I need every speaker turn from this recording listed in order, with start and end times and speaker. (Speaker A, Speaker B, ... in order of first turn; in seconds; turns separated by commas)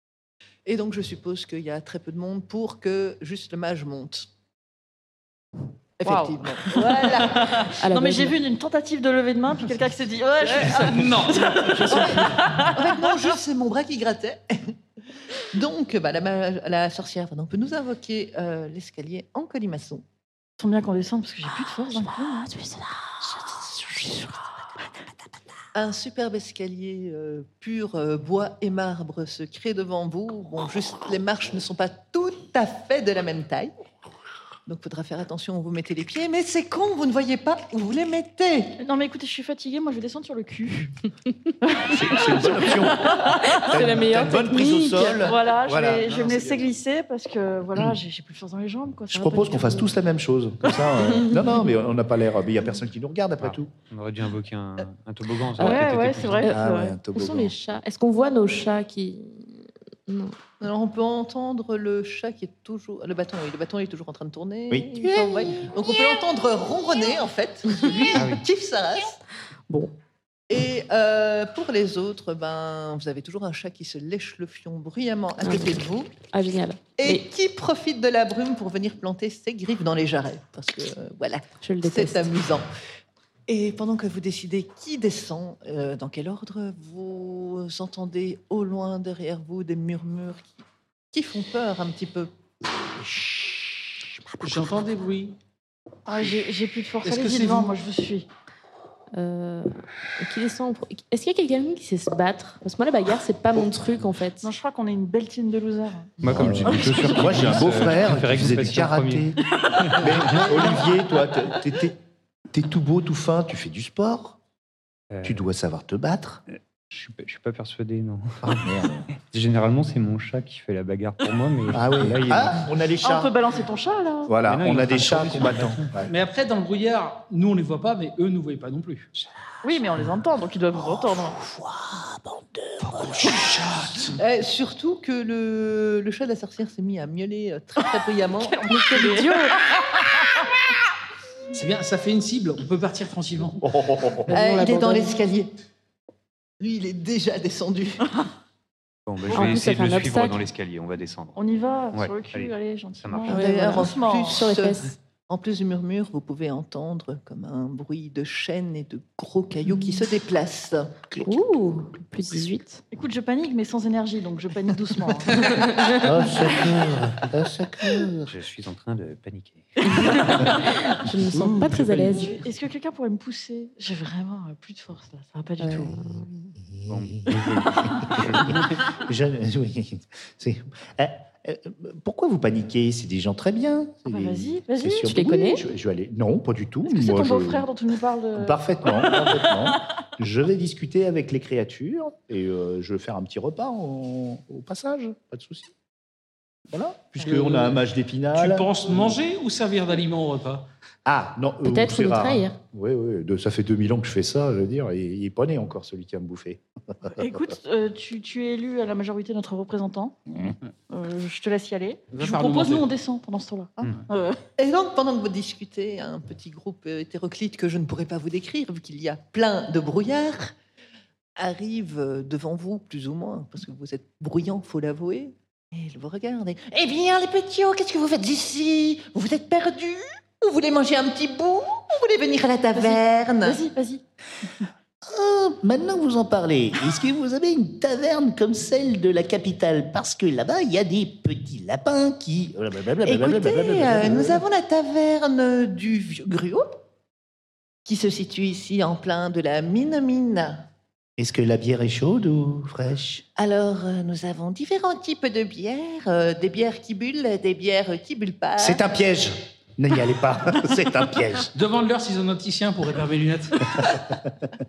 Speaker A: 0.7-4.3, Speaker A: 6.0-7.7, Speaker B: 6.0-13.3, Speaker C: 7.8-8.4, Speaker A: 10.4-11.1, Speaker D: 10.6-12.6, Speaker A: 11.8-14.7, Speaker A: 15.4-20.0, Speaker B: 20.6-22.7, Speaker A: 25.7-33.7, Speaker A: 34.6-38.8, Speaker B: 38.8-40.9, Speaker B: 41.6-43.8, Speaker E: 41.9-46.6, Speaker C: 43.5-45.3, Speaker B: 45.1-49.9, Speaker E: 49.1-53.7, Speaker B: 50.7-51.3, Speaker F: 53.4-56.5, Speaker B: 55.6-57.0, Speaker C: 55.6-55.9, Speaker C: 56.4-60.3, Speaker E: 56.5-57.5, Speaker A: 60.6-69.2, Speaker E: 64.7-65.8, Speaker C: 67.8-68.0, Speaker F: 68.1-68.4, Speaker A: 70.5-76.1, Speaker C: 75.4-77.2, Speaker A: 77.0-82.7, Speaker C: 81.6-82.3, Speaker A: 83.5-92.3, Speaker D: 94.4-95.4, Speaker B: 96.1-98.2, Speaker D: 97.0-97.8, Speaker C: 99.1-104.5, Speaker B: 104.4-106.1, Speaker F: 106.2-110.7, Speaker E: 106.2-112.0, Speaker B: 106.6-107.5, Speaker E: 112.5-114.4, Speaker F: 115.1-115.4, Speaker E: 115.2-116.4, Speaker F: 116.9-122.7, Speaker E: 118.4-119.1, Speaker E: 121.7-123.3, Speaker B: 123.0-124.3, Speaker E: 124.2-126.1, Speaker F: 124.4-125.9, Speaker D: 126.0-129.1, Speaker B: 129.6-131.4, Speaker E: 130.8-133.5, Speaker D: 132.8-134.2, Speaker A: 134.1-139.4, Speaker B: 138.4-140.4, Speaker C: 138.9-139.3, Speaker D: 141.5-143.6, Speaker E: 143.6-144.3, Speaker C: 144.2-145.2, Speaker A: 144.3-145.5, Speaker A: 146.6-148.1, Speaker F: 149.1-153.4, Speaker C: 149.3-150.4, Speaker B: 151.3-154.4, Speaker C: 153.3-154.9, Speaker A: 153.3-161.0, Speaker C: 161.2-162.8, Speaker B: 162.9-165.7, Speaker C: 165.4-166.2, Speaker E: 166.0-168.3, Speaker F: 168.2-170.5, Speaker B: 169.9-170.4, Speaker C: 170.0-172.4, Speaker D: 171.3-172.3, Speaker B: 172.2-176.0, Speaker C: 175.6-176.3, Speaker E: 176.7-187.7, Speaker F: 176.8-178.8, Speaker B: 184.1-185.2, Speaker C: 185.1-185.6, Speaker B: 186.9-189.4, Speaker E: 188.3-195.7, Speaker E: 196.7-199.1, Speaker D: 197.2-197.8, Speaker D: 198.3-200.7, Speaker E: 201.0-207.4, Speaker C: 201.6-202.6, Speaker B: 207.2-210.2, Speaker B: 210.9-214.4, Speaker D: 212.1-212.9, Speaker A: 214.6-220.6, Speaker A: 221.4-233.6, Speaker B: 232.7-234.0, Speaker E: 235.0-244.4, Speaker A: 243.0-246.8, Speaker A: 247.8-250.7, Speaker E: 251.2-253.2, Speaker A: 253.4-258.8, Speaker E: 258.6-261.5, Speaker D: 261.5-263.9, Speaker E: 263.9-264.2